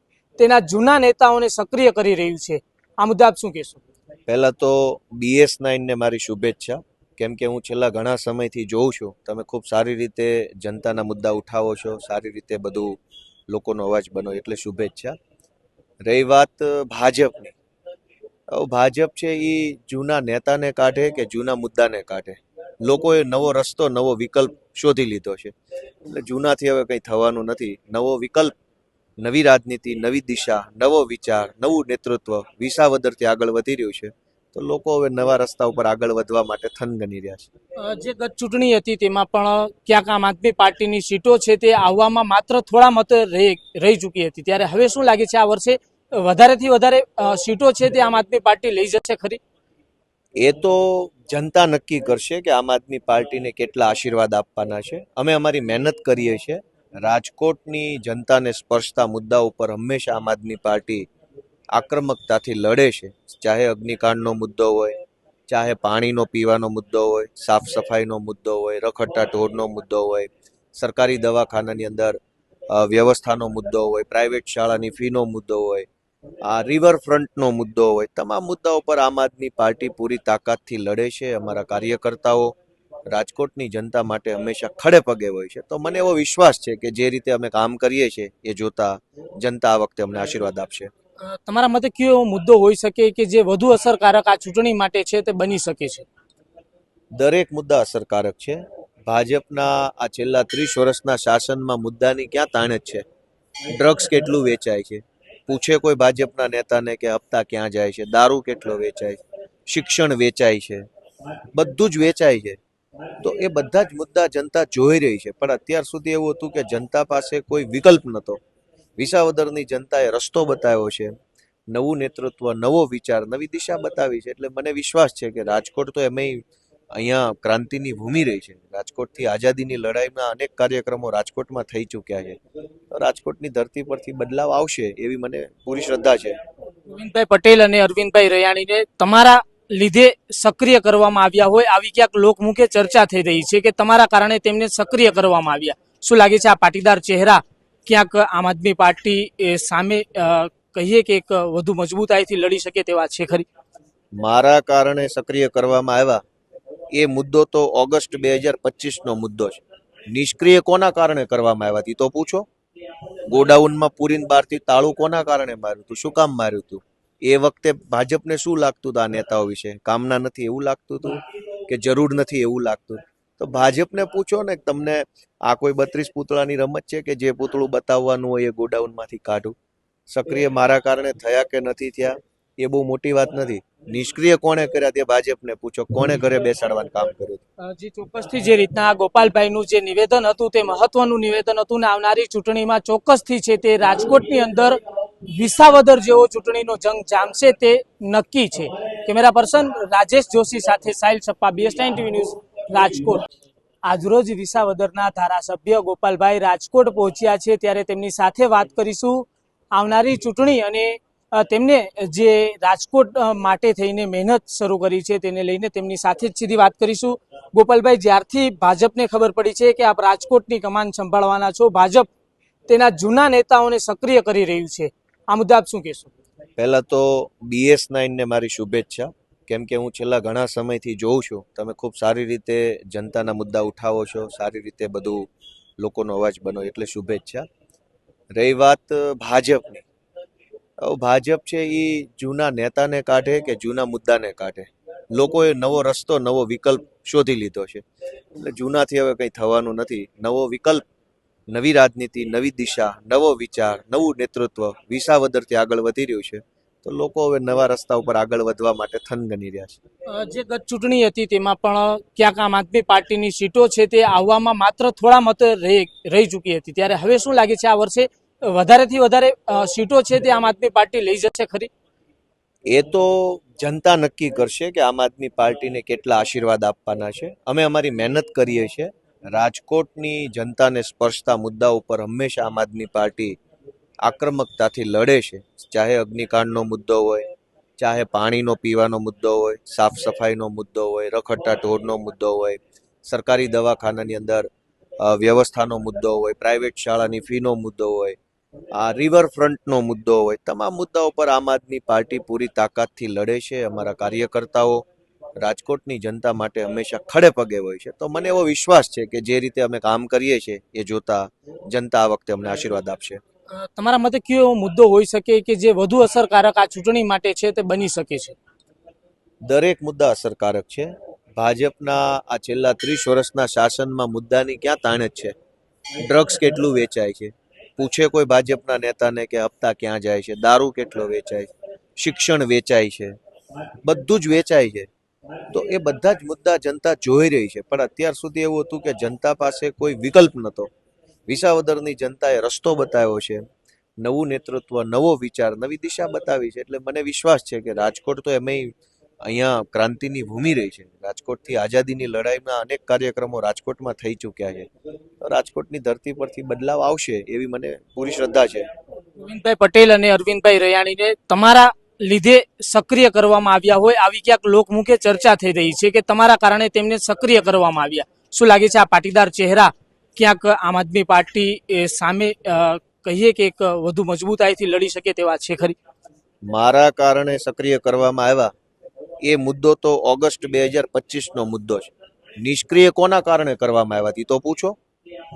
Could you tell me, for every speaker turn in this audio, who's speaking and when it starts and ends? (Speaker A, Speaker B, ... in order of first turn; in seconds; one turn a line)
Speaker A: 0.4-3.8
Speaker B: 4.3-13.0
Speaker B: 13.5-15.2
Speaker B: 16.0-17.6
Speaker B: 18.5-25.5
Speaker B: 26.1-28.5
Speaker B: 29.2-37.5
Speaker A: 37.8-49.4
Speaker B: 50.4-61.1
Speaker B: 61.7-72.2
Speaker B: 72.7-75.9
Speaker B: 76.5-82.5
Speaker B: 83.1-90.9
Speaker A: 91.2-96.1
Speaker B: 97.2-103.0
Speaker B: 103.7-110.9
Speaker B: 111.5-112.6
Speaker B: 113.2-118.4
Speaker B: 119.0-121.2
Speaker B: 121.7-126.4
Speaker B: 127.0-132.4
Speaker B: 132.9-136.4
Speaker A: 136.9-153.5
Speaker B: 154.2-156.2
Speaker B: 156.9-162.5
Speaker B: 163.3-179.6
Speaker B: 180.1-187.4
Speaker A: 187.7-203.3
Speaker A: 203.8-222.1
Speaker A: 222.7-226.1
Speaker B: 226.6-235.3
Speaker B: 235.8-237.5
Speaker B: 238.3-239.8
Speaker B: 240.8-247.8
Speaker B: 248.4-250.8
Speaker B: 251.5-259.8
Speaker A: 260.1-271.7
Speaker B: 272.7-283.4
Speaker B: 284.0-294.5
Speaker B: 295.0-298.2
Speaker B: 298.8-304.9
Speaker B: 305.4-313.2
Speaker A: 313.5-318.4
Speaker B: 319.5-325.3
Speaker B: 326.0-333.2
Speaker B: 333.9-334.9
Speaker B: 335.5-340.7
Speaker B: 341.3-343.5
Speaker B: 344.0-354.7
Speaker B: 355.2-358.7
Speaker A: 359.2-375.8
Speaker B: 376.5-378.5
Speaker B: 379.2-384.8